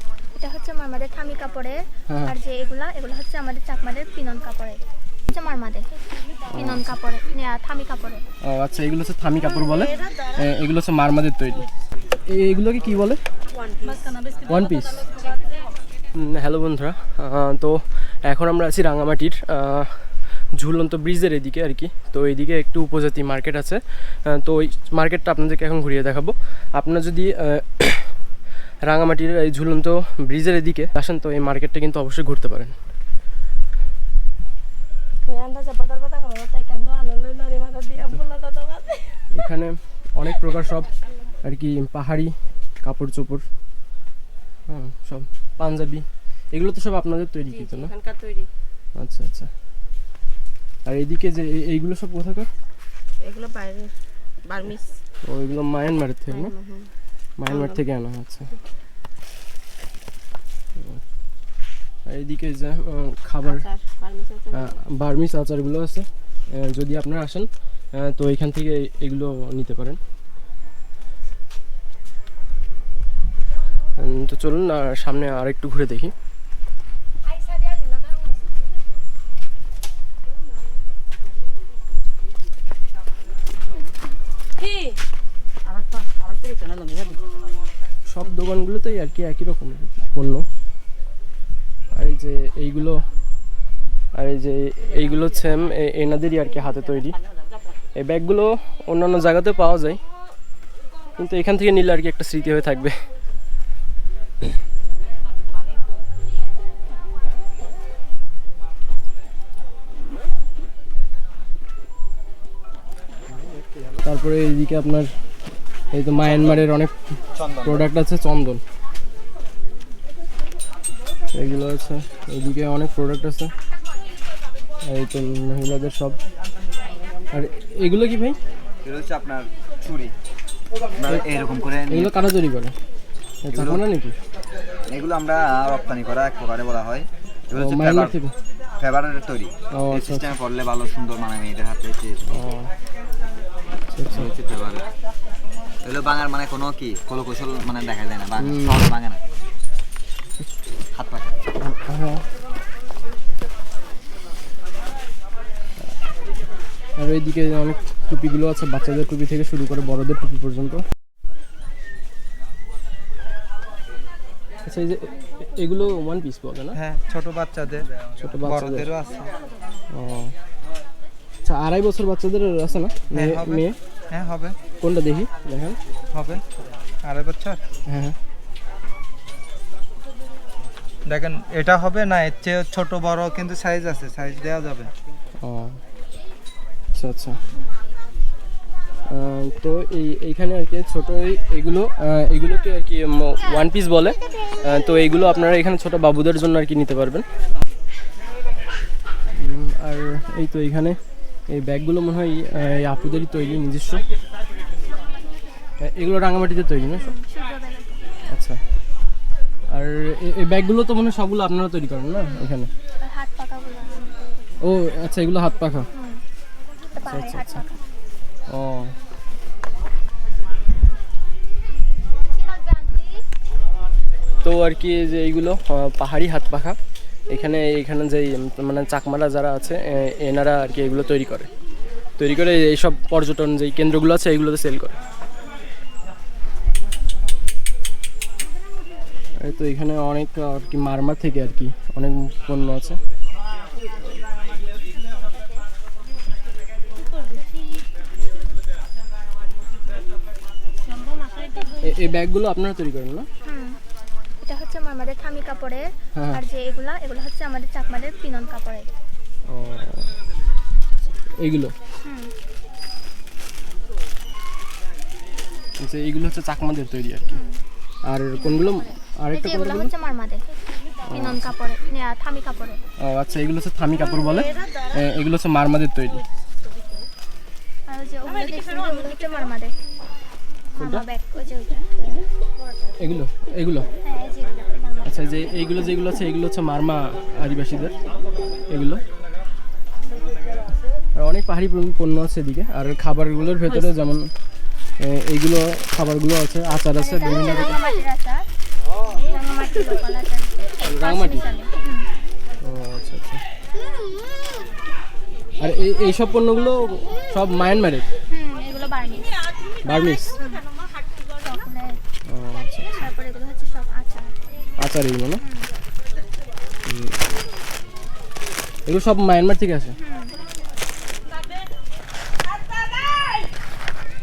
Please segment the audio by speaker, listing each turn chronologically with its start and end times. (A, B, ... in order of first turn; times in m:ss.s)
0:00.3-0:05.9 A
0:02.1-0:02.3 B
0:06.5-0:07.0 B
0:06.5-0:08.2 A
0:08.4-0:13.2 B
0:09.8-0:10.3 C
0:13.6-0:14.4 C
0:14.4-0:15.2 B
0:16.1-0:28.2 B
0:28.8-0:32.7 B
0:35.2-0:39.3 C
0:39.3-0:43.5 B
0:40.5-0:40.9 C
0:44.7-0:47.9 B
0:47.5-0:48.5 C
0:49.0-0:49.5 B
0:50.8-0:52.5 B
0:53.2-0:55.0 C
0:55.2-0:56.5 B
0:56.3-0:56.9 C
0:57.4-0:58.5 B
0:57.4-0:57.8 C
1:02.0-1:03.7 B
1:03.4-1:04.8 C
1:04.5-1:10.0 B
1:14.0-1:16.1 B
1:25.7-1:27.2 C
1:28.1-1:30.5 B
1:31.9-1:33.0 B
1:34.1-1:37.2 B
1:38.0-1:40.0 B
1:41.2-1:43.0 B
1:54.0-1:55.1 B
1:55.9-1:58.6 B
1:57.4-1:57.8 D
2:01.3-2:03.5 B
2:04.8-2:06.2 B
2:07.3-2:08.4 B
2:08.8-2:10.1 D
2:11.0-2:12.2 D
2:11.9-2:12.8 B
2:13.4-2:14.1 B
2:13.5-2:13.8 D
2:14.9-2:18.2 D
2:17.5-2:18.3 B
2:18.8-2:22.2 D
2:19.7-2:20.4 B
2:22.3-2:22.7 B
2:23.9-2:24.3 B
2:24.1-2:24.8 D
2:25.8-2:29.2 D
2:28.4-2:28.9 B
2:30.9-2:31.3 D
2:31.6-2:32.2 B
2:37.0-2:40.8 B
2:44.6-2:46.8 B
2:46.7-2:49.3 E
2:48.2-2:48.9 B
2:49.9-2:50.3 B
2:51.4-2:53.8 B
2:53.1-2:54.6 E
2:54.8-2:55.8 B
2:56.1-2:56.4 E
2:57.0-2:57.6 E
2:57.9-2:58.2 B
3:01.0-3:04.9 E
3:05.4-3:05.8 B
3:06.9-3:07.4 B
3:09.1-3:17.2 B
3:19.3-3:21.0 B
3:21.5-3:24.0 B
3:25.8-3:27.1 B
3:26.9-3:28.2 A
3:28.3-3:28.6 B
3:29.7-3:32.7 B
3:32.2-3:34.8 A
3:34.6-3:35.9 B
3:35.9-3:36.2 A
3:36.9-3:37.8 A
3:37.0-3:37.6 B
3:38.5-3:39.0 B
3:42.3-3:43.2 A
3:44.4-3:46.8 B
3:47.3-3:51.5 B
3:52.2-3:55.0 B
3:59.4-4:03.0 B
4:11.8-4:13.3 B
4:13.4-4:13.8 A
4:14.4-4:18.9 A
4:16.1-4:16.4 B
4:19.5-4:20.1 B
4:21.4-4:21.7 B
4:22.0-4:22.3 A
4:25.8-4:27.3 B
4:27.3-4:27.6 A
4:28.0-4:29.9 B
4:28.3-4:30.4 A
4:31.1-4:31.5 B
4:31.1-4:32.8 A
4:33.0-4:36.2 B
4:34.1-4:34.7 A
4:37.9-4:39.7 A
4:40.7-4:42.3 A
4:40.8-4:41.0 B
4:43.0-4:43.9 B
4:44.0-4:45.1 A
4:45.0-4:47.9 B
4:48.7-4:49.0 B
4:51.1-4:54.3 B
4:55.0-4:57.8 B
4:57.0-4:58.5 A
4:59.0-5:02.1 A
5:00.8-5:01.4 B
5:02.6-5:03.4 B
5:05.6-5:08.1 B
5:08.3-5:09.3 A
5:09.8-5:10.4 B
5:10.4-5:10.7 A
5:11.4-5:12.0 A
5:12.2-5:12.9 B
5:12.7-5:14.4 A
5:14.8-5:15.4 B
5:15.4-5:15.7 A
5:16.8-5:17.2 B
5:18.8-5:20.0 B
5:20.0-5:20.4 A